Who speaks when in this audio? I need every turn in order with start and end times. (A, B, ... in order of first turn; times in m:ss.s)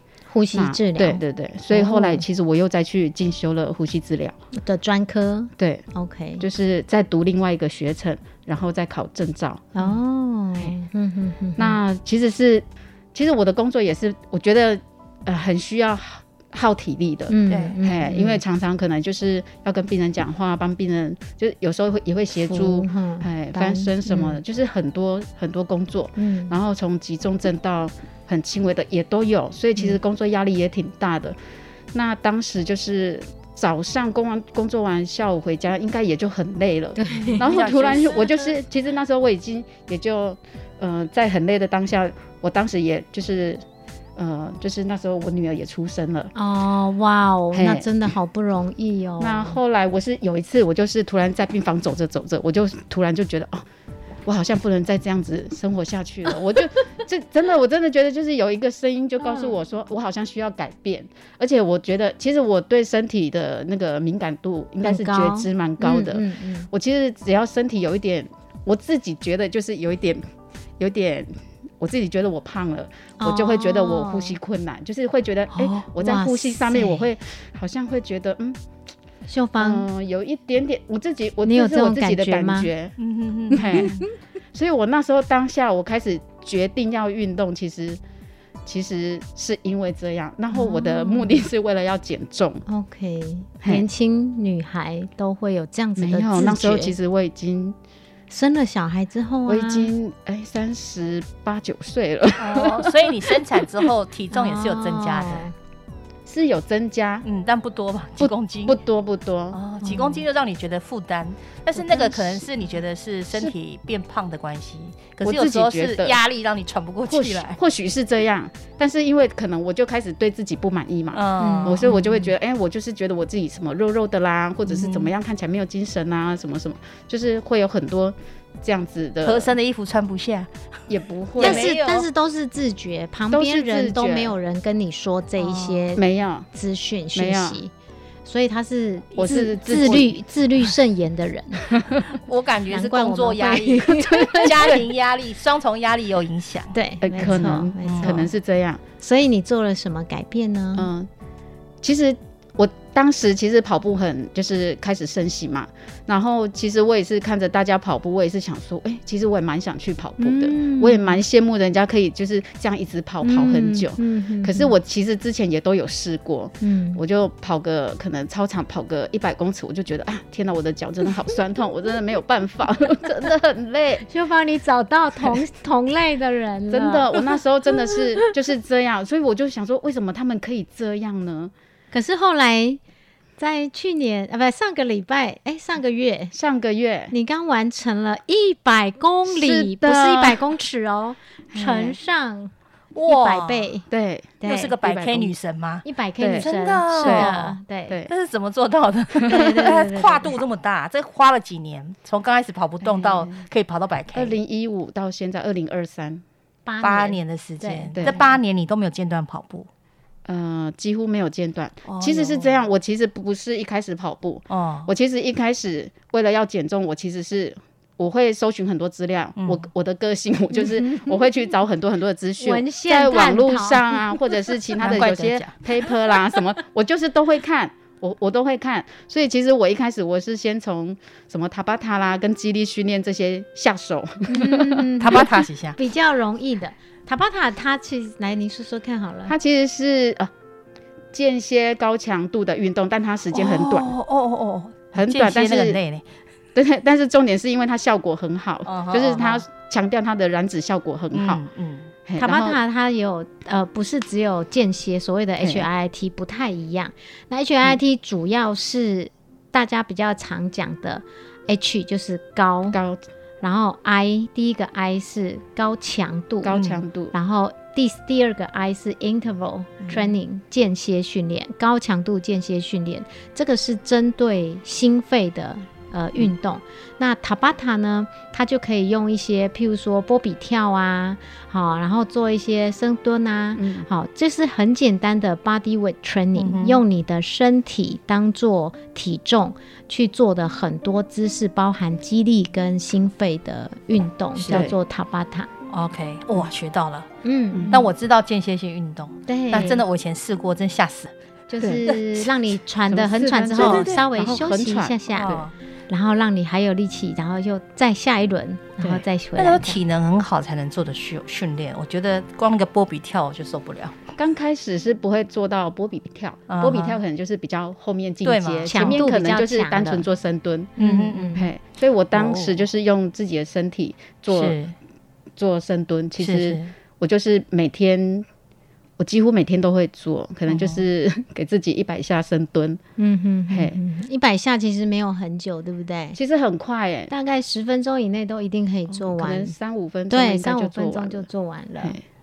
0:00.3-0:02.2 A
0:00.5-0:04.4 B
0:04.5-0:06.4 A
0:05.6-0:05.8 B
0:06.4-0:09.8 B
0:09.8-0:11.8 A
0:11.6-0:31.4 B
0:17.3-0:18.4 A
0:17.5-0:17.7 C
0:22.4-0:24.4 A
0:26.2-0:26.5 A
0:31.9-0:43.6 B
0:37.0-0:37.4 A
0:37.1-0:38.5 C
0:44.2-0:46.3 B
0:46.4-0:49.6 A
0:47.5-0:47.9 B
0:49.2-0:53.6 B
0:54.2-1:10.2 B
0:59.2-0:59.5 A
1:04.8-1:06.7 A
1:10.8-1:18.6 B
1:13.2-1:14.4 A
1:15.9-1:17.0 A
1:19.3-1:19.8 A
1:19.6-1:23.0 B
1:21.4-1:22.7 A
1:23.0-1:24.0 C
1:23.5-1:28.0 B
1:28.6-1:32.6 B
1:30.5-1:31.4 A
1:32.7-1:36.9 A
1:33.6-1:33.8 B
1:36.0-1:37.8 B
1:38.3-1:39.9 A
1:39.5-1:43.7 B
1:42.4-1:45.5 C
1:44.3-1:45.5 A
1:46.2-1:47.2 B
1:47.2-1:48.8 C
1:48.2-1:49.6 B
1:49.5-1:57.6 C
1:49.8-1:50.2 A
1:51.8-1:52.5 B
1:55.2-1:56.2 B
1:57.0-2:09.5 B
2:01.1-2:01.8 C
2:01.4-2:02.3 A
2:04.7-2:05.1 C
2:09.2-2:10.5 C
2:10.9-2:11.7 B
2:11.4-2:12.1 C
2:11.4-2:16.0 A
2:13.3-2:14.4 B
2:15.4-2:15.9 C
2:16.0-2:16.5 B
2:16.5-2:17.7 A
2:17.1-2:17.6 B
2:18.2-2:21.7 A
2:19.1-2:20.1 B
2:22.1-2:26.7 C
2:22.7-2:24.7 A
2:24.5-2:24.7 B
2:26.7-2:28.3 A
2:27.0-2:28.8 B
2:27.8-2:28.2 C
2:29.0-2:30.9 A
2:30.7-2:31.1 B
2:31.8-2:54.0 B
2:40.2-2:41.2 A
2:43.2-2:44.7 A
2:46.6-2:47.0 A
2:54.1-2:57.1 A
2:56.7-3:01.5 B
3:01.9-3:02.8 A
3:03.4-3:06.3 A
3:06.3-3:07.1 B
3:07.1-3:12.5 A
3:09.2-3:10.4 B
3:11.5-3:12.0 B
3:12.9-3:13.7 C
3:13.0-3:13.8 A
3:13.9-3:15.3 B
3:14.4-3:14.7 A
3:14.4-3:15.8 C
3:15.8-3:18.0 A
3:16.2-3:16.5 B
3:16.4-3:24.4 C
3:17.0-3:17.3 B
3:19.2-3:19.6 B
3:19.3-3:20.4 A
3:22.9-3:23.3 B
3:24.1-3:26.2 B
3:26.6-3:28.2 A
3:26.8-3:29.7 C
3:27.9-3:28.2 B
3:30.2-3:55.2 B
3:31.9-3:32.6 C
3:34.5-3:34.9 C
3:39.4-3:39.7 C
3:40.6-3:41.1 A
3:42.4-3:44.0 A
3:44.8-3:45.5 C
3:54.3-3:59.3 A
3:55.0-3:55.8 C
3:59.3-4:00.3 B
4:01.1-4:03.9 B
4:03.3-4:06.0 C
4:04.9-4:05.8 B
4:06.5-4:11.4 B
4:08.6-4:09.4 C
4:11.1-4:11.9 C
4:12.0-4:12.6 B
4:12.2-4:22.8 A
4:15.4-4:15.7 B
4:22.7-4:23.0 B
4:23.4-4:26.6 A
4:26.4-4:27.1 B
4:26.5-4:26.8 C
4:27.1-4:55.5 A
4:29.8-4:30.1 C
4:43.6-4:43.9 B
4:46.4-4:46.8 C
4:54.4-4:54.7 C
4:54.5-4:54.7 B
4:55.7-4:57.1 C
4:57.2-4:57.8 A
4:57.5-4:57.9 B
4:57.7-5:01.1 C
4:59.3-4:59.8 A
5:01.5-5:09.8 A
5:01.6-5:01.9 B
5:01.9-5:02.3 C
5:02.9-5:05.0 B
5:03.6-5:04.0 C
5:05.1-5:05.5 C
5:09.4-5:14.0 C
5:14.2-5:20.7 B
5:16.5-5:17.0 C
5:18.2-5:19.0 C
5:18.7-5:20.0 A
5:20.8-5:21.4 C
5:20.8-5:21.4 A
5:21.3-5:24.6 B
5:22.1-5:22.6 C
5:24.3-5:24.7 C
5:25.4-5:28.2 B
5:26.2-5:26.7 C
5:29.0-5:32.8 B
5:30.5-5:30.8 C
5:33.0-5:36.2 A
5:33.5-5:33.8 B
5:36.1-5:37.1 B
5:37.1-5:39.5 A
5:38.9-5:41.3 B
5:40.1-5:42.0 A